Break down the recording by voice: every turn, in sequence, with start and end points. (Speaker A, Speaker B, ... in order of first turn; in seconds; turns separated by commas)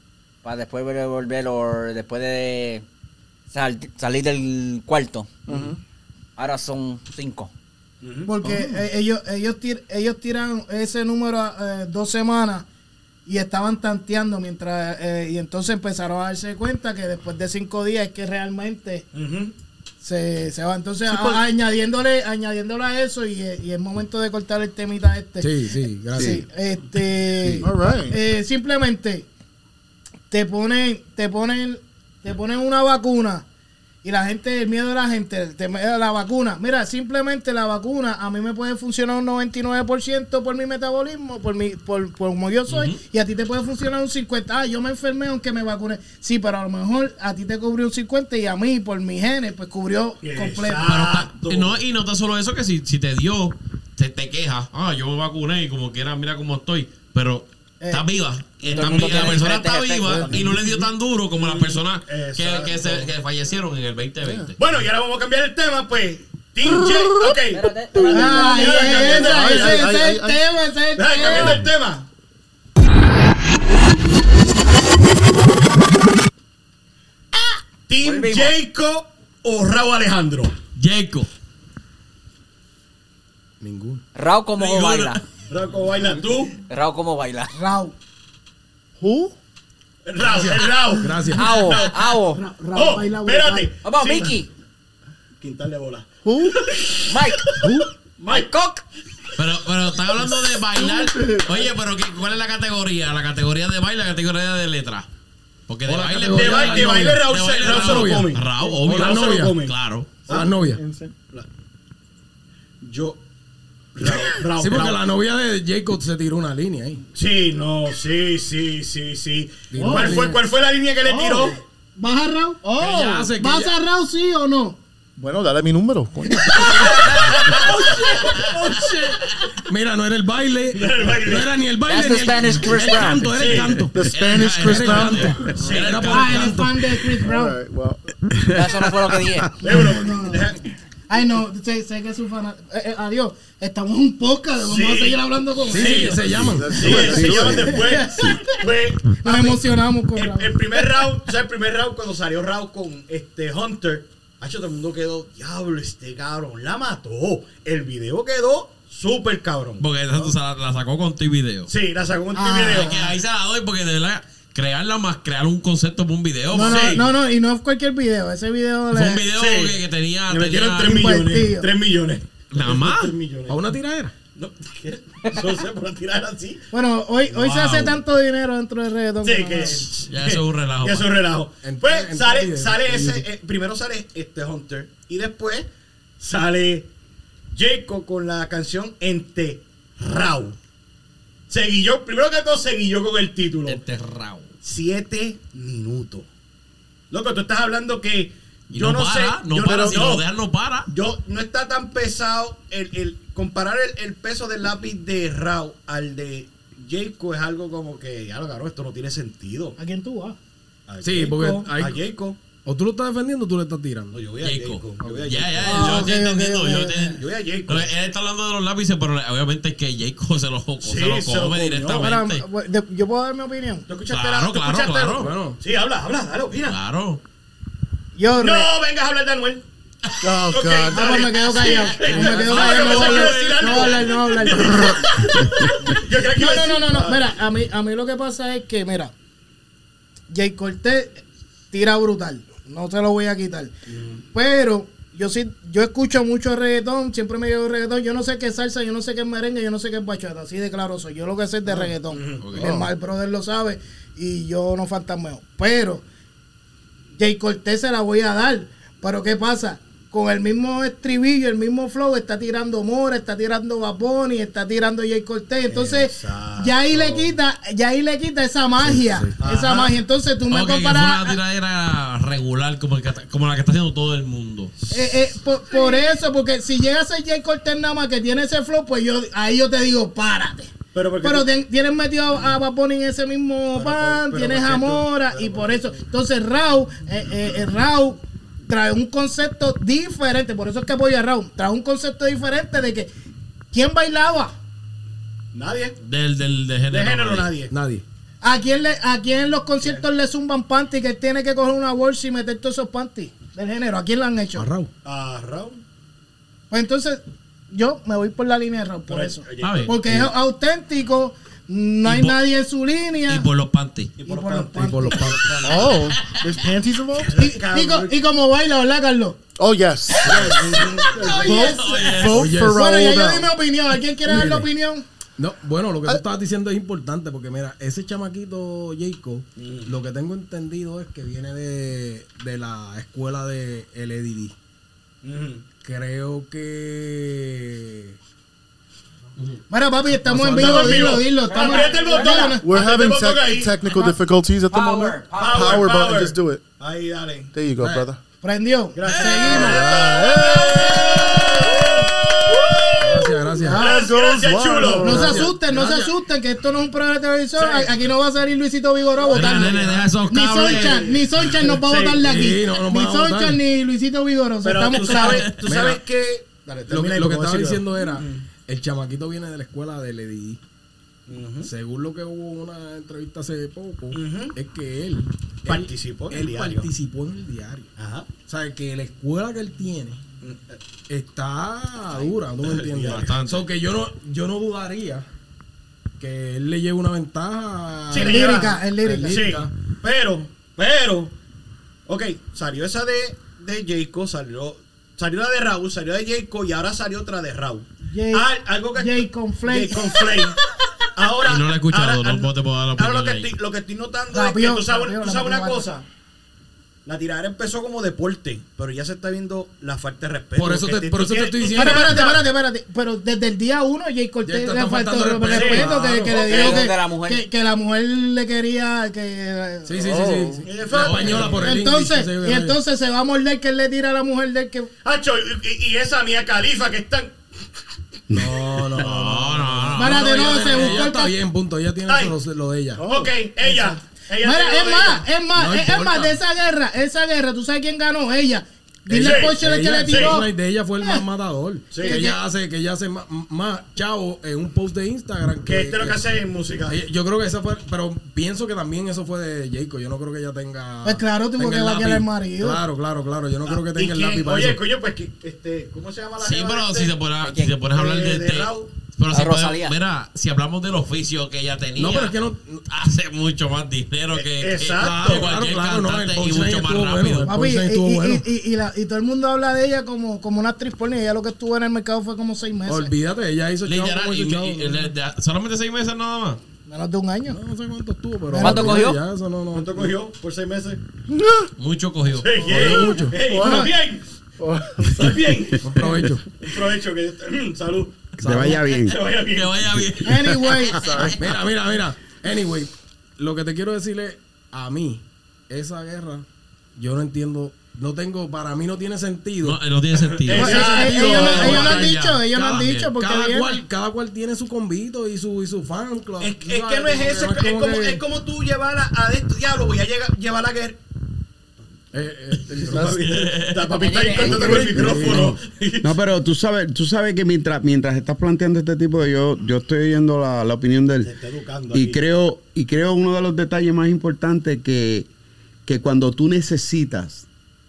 Speaker A: 0.4-2.9, Speaker A: 3.5-5.4, Speaker B: 5.5-5.8, Speaker A: 6.4-7.5, Speaker C: 8.0-8.3, Speaker D: 8.3-12.7, Speaker E: 8.4-8.8, Speaker D: 13.3-19.1, Speaker C: 19.1-19.5, Speaker D: 20.0-25.5, Speaker B: 21.1-21.4, Speaker E: 25.4-26.4, Speaker D: 26.1-29.3, Speaker E: 27.4-27.7, Speaker B: 27.6-28.2, Speaker D: 30.3-33.5, Speaker D: 34.0-50.9, Speaker F: 42.7-43.0, Speaker C: 50.2-51.8, Speaker F: 50.8-64.5, Speaker A: 58.6-60.4, Speaker C: 58.7-59.4, Speaker C: 60.2-60.6, Speaker C: 61.3-63.1, Speaker B: 64.2-64.5, Speaker C: 64.6-67.7, Speaker B: 66.6-70.4, Speaker A: 67.5-69.1, Speaker D: 68.1-71.6, Speaker C: 68.3-69.8, Speaker C: 71.0-72.1, Speaker C: 77.9-80.6, Speaker A: 78.0-78.6, Speaker F: 80.8-81.3, Speaker E: 83.6-84.0, Speaker A: 84.2-85.2, Speaker F: 84.6-85.2, Speaker C: 85.5-86.6, Speaker A: 86.7-87.5, Speaker D: 87.5-87.9, Speaker B: 89.0-89.3, Speaker C: 90.1-94.4, Speaker E: 90.2-91.6, Speaker A: 91.3-92.4, Speaker D: 92.3-93.7, Speaker A: 93.8-94.5, Speaker C: 95.4-97.7, Speaker B: 96.2-96.6, Speaker A: 97.1-97.6, Speaker B: 97.6-97.9, Speaker C: 98.2-98.5, Speaker A: 98.3-98.8, Speaker F: 99.4-105.1, Speaker B: 100.7-101.7, Speaker F: 105.7-110.2, Speaker E: 105.9-109.6, Speaker C: 106.3-109.8, Speaker E: 110.3-110.8, Speaker B: 110.3-111.1, Speaker C: 112.8-113.2, Speaker C: 114.0-115.0, Speaker E: 114.6-117.0, Speaker C: 117.1-121.6, Speaker E: 119.7-120.4, Speaker B: 119.8-120.2, Speaker D: 119.8-120.2, Speaker D: 121.1-124.8, Speaker B: 122.6-123.3, Speaker E: 122.8-123.7, Speaker B: 125.2-127.5, Speaker C: 127.3-129.3, Speaker E: 127.7-134.1, Speaker C: 130.7-131.6, Speaker A: 131.8-133.4, Speaker C: 133.3-133.8, Speaker B: 133.9-135.7, Speaker F: 134.1-136.6, Speaker E: 134.6-136.9, Speaker C: 135.5-136.1, Speaker D: 136.1-137.6, Speaker B: 137.2-138.1, Speaker G: 138.3-139.4, Speaker A: 138.5-139.6, Speaker C: 139.6-140.7, Speaker D: 139.7-140.5, Speaker D: 141.1-146.2, Speaker C: 144.6-146.2, Speaker E: 145.7-146.9, Speaker B: 146.4-147.7, Speaker C: 146.7-160.3, Speaker G: 146.9-148.4, Speaker D: 147.6-148.6, Speaker D: 149.2-151.0, Speaker F: 159.8-161.7, Speaker C: 161.7-163.1, Speaker D: 162.3-163.1, Speaker F: 162.7-167.0, Speaker C: 166.5-167.1, Speaker D: 166.5-169.3, Speaker F: 168.9-171.2, Speaker C: 169.3-173.7, Speaker D: 170.8-171.7, Speaker F: 172.5-173.1, Speaker E: 173.5-174.1, Speaker C: 174.3-176.6, Speaker D: 176.7-179.9, Speaker F: 177.3-178.0, Speaker C: 179.2-185.7, Speaker F: 180.1-181.2, Speaker E: 181.6-183.3, Speaker C: 186.2-186.9, Speaker C: 187.5-190.6, Speaker C: 191.5-193.8, Speaker F: 193.7-194.5, Speaker C: 194.6-196.3, Speaker C: 197.1-200.2, Speaker F: 198.7-200.9, Speaker B: 199.7-200.0, Speaker C: 200.9-209.8, Speaker D: 209.8-210.4, Speaker C: 210.9-212.4, Speaker E: 211.0-212.0, Speaker E: 212.7-214.2, Speaker C: 214.1-216.2, Speaker F: 214.4-222.4, Speaker E: 215.0-215.3, Speaker D: 215.7-217.2, Speaker C: 217.1-217.9, Speaker C: 220.8-222.1, Speaker D: 221.9-223.9, Speaker C: 223.9-226.8, Speaker F: 224.1-225.3, Speaker E: 225.2-225.6, Speaker F: 226.7-227.2, Speaker D: 228.2-228.7, Speaker C: 228.3-229.7, Speaker B: 230.2-231.2, Speaker C: 230.5-237.3, Speaker D: 230.9-235.1, Speaker F: 232.0-234.2, Speaker D: 236.3-239.1, Speaker D: 240.3-243.7, Speaker C: 243.9-244.2, Speaker D: 244.3-256.0, Speaker C: 251.7-252.5, Speaker F: 252.4-252.7, Speaker B: 252.6-252.9, Speaker D: 257.2-271.4, Speaker C: 265.7-267.4, Speaker E: 268.8-269.3, Speaker C: 269.4-270.0, Speaker F: 270.5-274.7, Speaker C: 274.8-276.1, Speaker D: 274.9-293.1, Speaker C: 280.9-281.5, Speaker C: 283.7-286.0, Speaker D: 293.7-294.6, Speaker C: 295.5-296.0, Speaker F: 296.0-297.5, Speaker C: 296.9-297.7, Speaker E: 297.7-298.0, Speaker D: 298.4-304.7, Speaker E: 304.6-304.9, Speaker C: 305.0-305.8, Speaker D: 306.7-313.5, Speaker C: 309.1-310.3, Speaker F: 309.6-309.9, Speaker F: 312.1-312.4, Speaker F: 313.3-314.1, Speaker C: 314.2-316.2, Speaker D: 314.2-315.2, Speaker E: 314.8-315.6, Speaker B: 315.6-317.3, Speaker C: 317.2-318.1, Speaker D: 317.3-319.4, Speaker B: 319.6-323.5, Speaker C: 320.3-321.6, Speaker D: 321.1-325.0, Speaker F: 321.3-322.6, Speaker E: 322.3-322.9, Speaker E: 324.3-324.7, Speaker E: 325.4-334.5, Speaker C: 329.6-329.9, Speaker C: 335.2-335.6, Speaker E: 335.8-338.2, Speaker D: 339.7-342.7, Speaker E: 340.2-341.2, Speaker C: 340.5-344.1, Speaker A: 341.5-342.5, Speaker B: 342.5-346.6, Speaker A: 344.7-345.8, Speaker C: 345.4-347.5, Speaker B: 347.5-348.2, Speaker E: 347.8-348.1, Speaker D: 348.4-350.1, Speaker C: 348.9-355.4, Speaker F: 349.1-349.9, Speaker B: 349.4-352.1, Speaker E: 353.0-353.9, Speaker B: 353.7-355.5, Speaker D: 353.7-354.1, Speaker D: 355.0-365.5, Speaker E: 355.1-356.1, Speaker C: 357.6-358.0, Speaker C: 359.2-362.4, Speaker F: 359.3-361.2, Speaker E: 362.2-363.6, Speaker C: 364.6-368.5, Speaker F: 364.9-365.7, Speaker E: 365.7-366.0, Speaker E: 366.9-370.6, Speaker C: 371.3-371.7, Speaker E: 371.6-377.9, Speaker C: 374.1-374.6, Speaker C: 375.7-376.9, Speaker C: 378.0-378.3, Speaker E: 378.5-380.2, Speaker C: 380.4-380.8, Speaker E: 381.1-385.3, Speaker C: 382.6-383.4, Speaker F: 383.1-383.7, Speaker E: 386.2-389.7, Speaker C: 388.1-391.3, Speaker D: 388.2-389.4, Speaker C: 392.1-400.6, Speaker D: 398.1-400.3, Speaker C: 401.1-406.1, Speaker F: 401.4-403.5, Speaker D: 404.3-405.9, Speaker C: 407.1-412.4, Speaker E: 410.6-412.3, Speaker D: 411.8-420.0, Speaker E: 414.4-416.3, Speaker C: 415.5-416.9, Speaker A: 416.3-417.4, Speaker E: 419.9-422.8, Speaker B: 420.0-420.6, Speaker C: 420.6-421.7, Speaker F: 420.9-421.6, Speaker D: 421.6-424.9, Speaker C: 425.0-427.4, Speaker E: 428.3-433.0, Speaker F: 429.0-431.0, Speaker D: 429.9-431.4, Speaker C: 430.3-430.8, Speaker C: 432.1-432.4, Speaker B: 433.0-433.9, Speaker C: 433.0-435.3, Speaker D: 434.4-440.5, Speaker E: 435.6-436.4, Speaker E: 439.1-446.2, Speaker C: 439.2-439.6, Speaker C: 440.1-440.4, Speaker C: 441.9-442.2, Speaker D: 442.0-442.4, Speaker C: 445.6-447.0, Speaker E: 446.9-454.8, Speaker D: 451.0-452.8, Speaker C: 453.7-457.2, Speaker F: 456.4-462.4, Speaker A: 457.4-457.8, Speaker C: 457.9-458.9, Speaker A: 459.3-460.0, Speaker E: 462.0-462.8, Speaker F: 462.9-467.5, Speaker C: 464.3-465.5, Speaker E: 465.0-468.5, Speaker D: 467.4-473.1, Speaker E: 472.9-475.1, Speaker F: 473.9-476.6, Speaker D: 476.9-477.6, Speaker E: 477.5-480.1, Speaker D: 478.5-479.0, Speaker A: 478.6-479.2, Speaker C: 479.7-481.0, Speaker B: 481.3-481.7, Speaker F: 481.8-482.9, Speaker C: 482.3-484.3, Speaker E: 482.7-483.4, Speaker B: 483.3-483.9, Speaker D: 483.5-483.9, Speaker B: 484.6-485.6, Speaker C: 485.1-489.9, Speaker E: 485.8-486.4, Speaker E: 488.4-488.8, Speaker G: 488.4-489.2, Speaker F: 489.5-491.4, Speaker D: 490.2-491.0, Speaker B: 490.9-491.4, Speaker E: 491.4-496.4, Speaker E: 497.0-499.8, Speaker F: 499.6-503.1, Speaker C: 500.2-502.0, Speaker E: 500.5-508.2, Speaker D: 500.5-503.8, Speaker C: 506.4-511.0, Speaker E: 512.1-513.2, Speaker C: 512.7-516.2, Speaker B: 512.9-513.2, Speaker F: 513.2-513.9, Speaker A: 513.9-514.8, Speaker E: 514.4-515.6, Speaker G: 514.4-521.3, Speaker C: 521.2-522.2, Speaker G: 521.9-525.3, Speaker G: 525.9-527.5